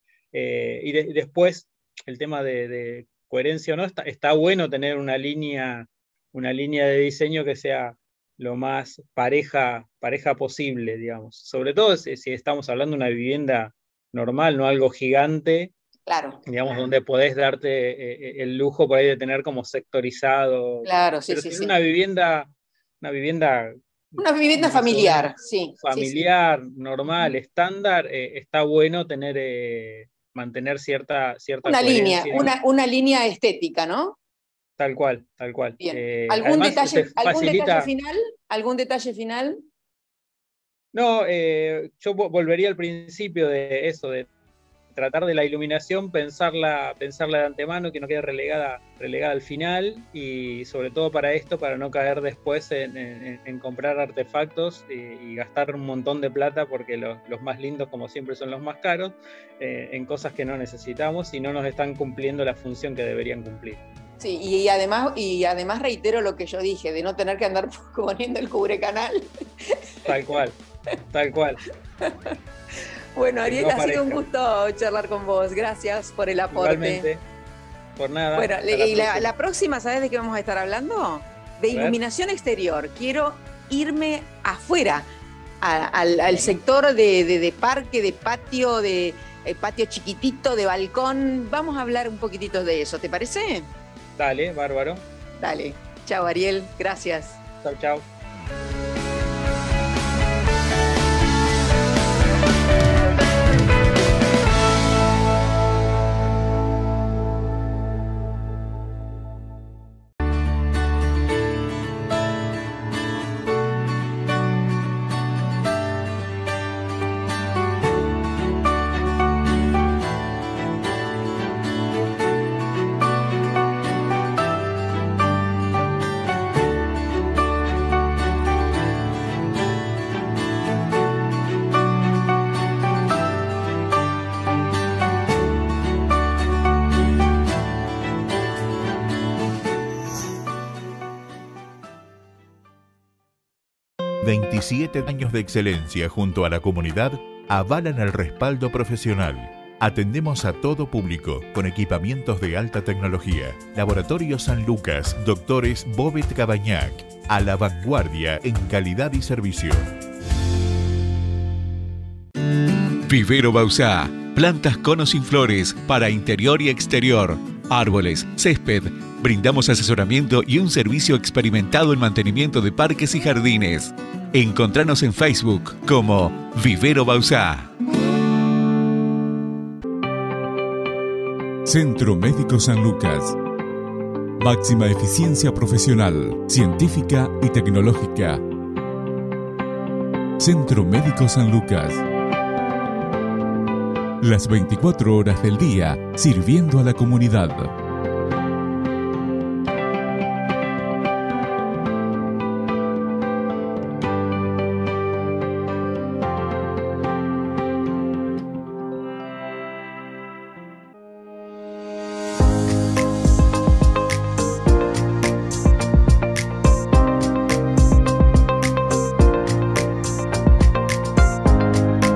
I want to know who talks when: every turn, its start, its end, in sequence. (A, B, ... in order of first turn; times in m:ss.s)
0:00.3-0:15.7 A
0:16.1-0:16.4 B
0:16.5-0:22.5 A
0:20.8-0:21.7 B
0:23.0-0:32.5 A
0:24.2-0:26.2 B
0:31.6-0:34.2 B
0:34.8-0:37.9 A
0:35.8-0:39.6 B
0:40.9-0:44.3 A
0:44.9-1:03.8 A
1:04.2-1:09.3 B
1:10.0-1:10.6 A
1:11.1-1:11.6 A
1:13.2-1:17.1 B
1:13.4-1:14.2 A
1:16.5-1:17.2 A
1:18.0-1:19.3 A
1:18.4-1:25.0 B
1:21.7-1:22.0 A
1:25.6-1:33.7 B
1:34.2-1:35.0 A
1:35.4-1:37.4 B
1:37.6-1:38.0 A
2:24.2-2:39.9 C
2:43.1-2:57.7 D
3:01.7-3:03.3 E
3:04.5-3:08.3 E
3:10.4-3:12.0 E
3:14.2-3:17.7 E